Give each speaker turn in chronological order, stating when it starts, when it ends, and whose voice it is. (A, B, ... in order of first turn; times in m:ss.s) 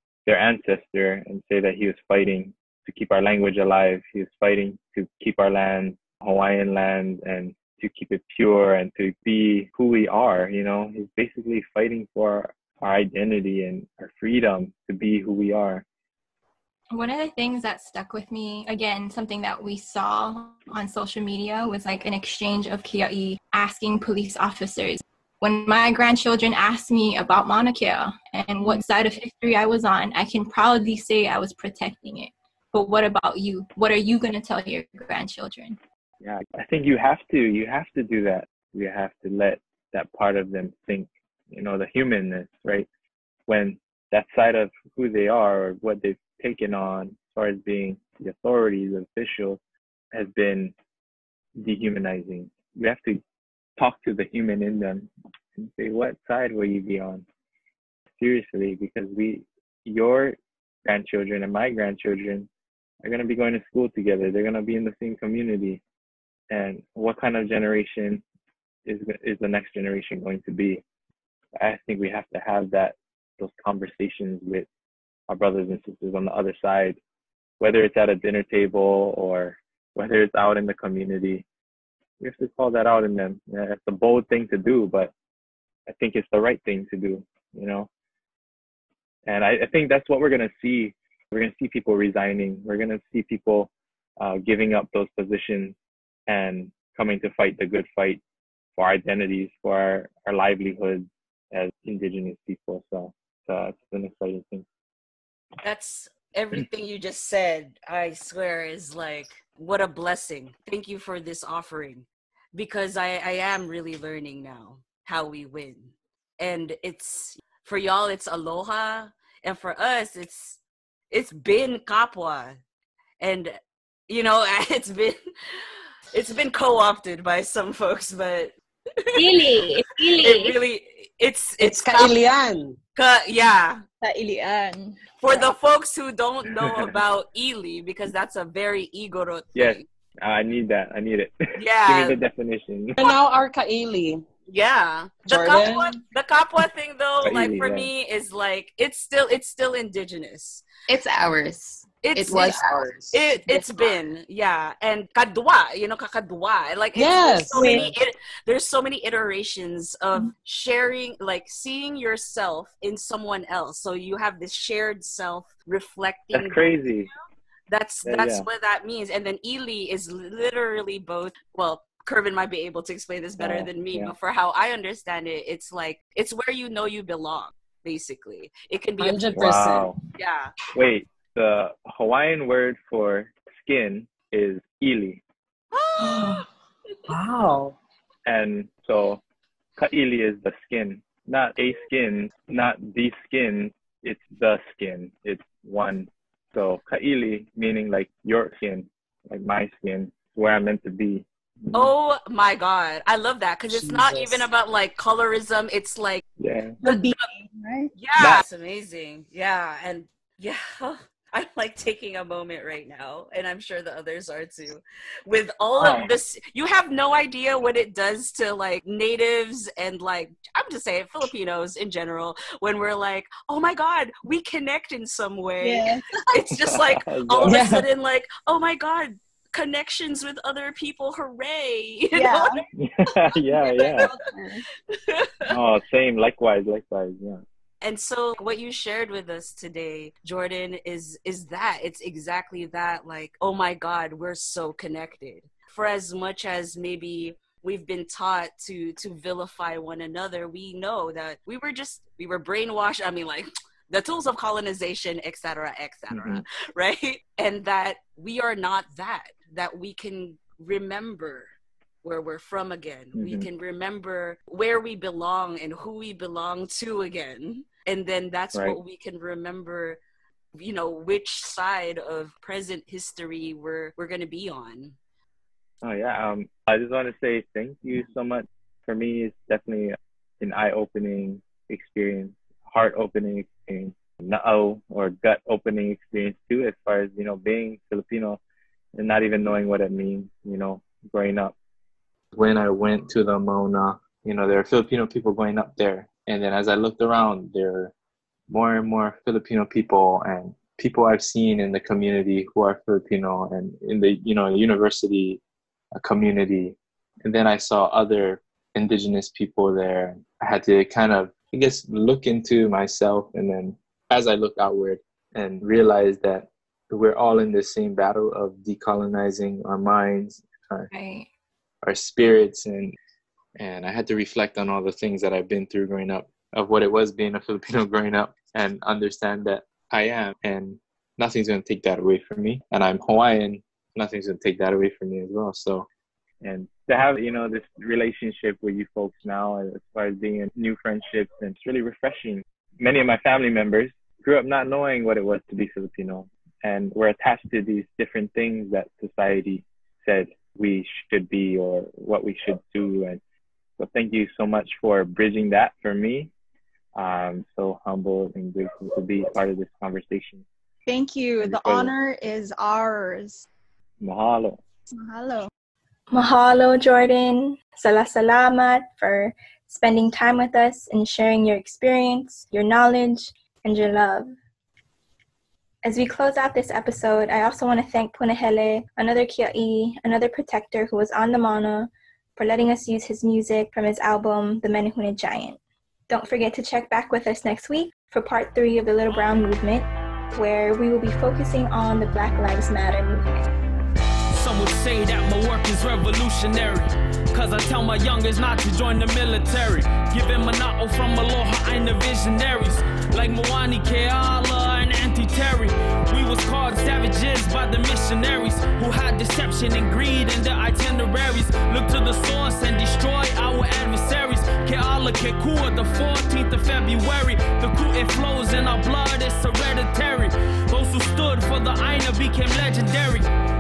0:00.3-0:15.8 A
0:16.9-0:35.8 B
0:36.2-0:42.9 A
0:43.5-0:49.6 A
0:50.1-0:50.8 A
0:51.6-0:53.2 A
0:53.8-0:57.2 A
0:58.2-1:02.5 A
1:03.0-1:05.8 A
1:06.5-1:08.2 A
1:08.9-1:10.8 A
1:11.6-1:14.7 A
1:15.3-1:17.0 A
1:17.6-1:21.4 A
1:22.2-1:25.1 A
1:25.9-1:27.9 A
1:29.3-1:35.8 A
1:36.3-1:38.2 A
1:38.8-1:44.7 A
1:45.6-2:00.6 C
2:01.1-2:02.6 C
2:03.2-2:03.6 C
2:04.1-2:05.2 C
2:06.1-2:08.6 C
2:09.1-2:09.5 C
2:09.2-2:10.6 B
2:10.2-2:12.2 C
2:11.6-2:12.8 D
2:13.0-2:13.8 C
2:14.0-2:14.9 E
2:15.2-2:19.8 C
2:16.6-2:16.9 A
2:19.6-2:23.1 A
2:21.6-2:22.2 C
2:23.0-2:24.2 D
2:24.5-2:30.6 C
2:25.3-2:26.0 D
2:27.2-2:27.9 A
2:30.9-2:32.9 F
2:32.0-2:46.6 C
2:32.3-2:34.0 D
2:37.0-2:38.0 D
2:46.3-2:47.1 A
2:47.7-2:59.6 C
2:48.0-2:48.5 A
2:53.4-2:54.2 A
2:59.0-2:59.9 D
2:59.4-3:00.0 A
3:00.2-3:00.5 C
3:00.7-3:05.2 A
3:05.7-3:06.4 C
3:06.0-3:06.5 D
3:07.1-3:07.8 D
3:08.3-3:09.2 A
3:09.8-3:21.9 A
3:21.7-3:26.2 C
3:23.7-3:24.5 D
3:26.4-3:26.8 A
3:26.8-3:27.9 E
3:26.8-3:27.2 C
3:27.9-3:52.6 C
3:28.2-3:28.4 A
3:35.8-3:36.1 A
3:45.6-3:46.2 E
3:46.6-3:47.8 A
3:47.5-3:47.9 D
3:52.1-3:52.5 E
3:52.8-3:54.1 A
3:53.6-3:54.1 C
3:54.2-3:54.6 E
3:54.9-3:55.3 C
3:55.5-3:57.4 A
3:57.8-4:21.5 C
4:16.1-4:16.4 A
4:22.0-4:30.0 C
4:23.2-4:23.4 A
4:30.6-4:35.0 C
4:35.8-4:48.4 A
4:49.0-4:51.6 A
4:52.3-4:57.9 G
4:58.5-5:05.4 G
5:05.9-5:20.9 G
5:20.9-5:21.3 B
5:21.8-5:23.0 G
5:23.6-5:35.9 G
5:36.4-5:53.2 A
5:53.8-5:56.3 A
5:57.0-6:00.4 A
6:00.9-6:03.5 E
6:01.4-6:01.9 A
6:04.0-6:04.6 A
6:04.9-6:05.5 E
6:06.1-6:14.3 H
6:15.8-6:33.2 H
6:29.1-6:29.4 I
6:34.3-7:03.3 I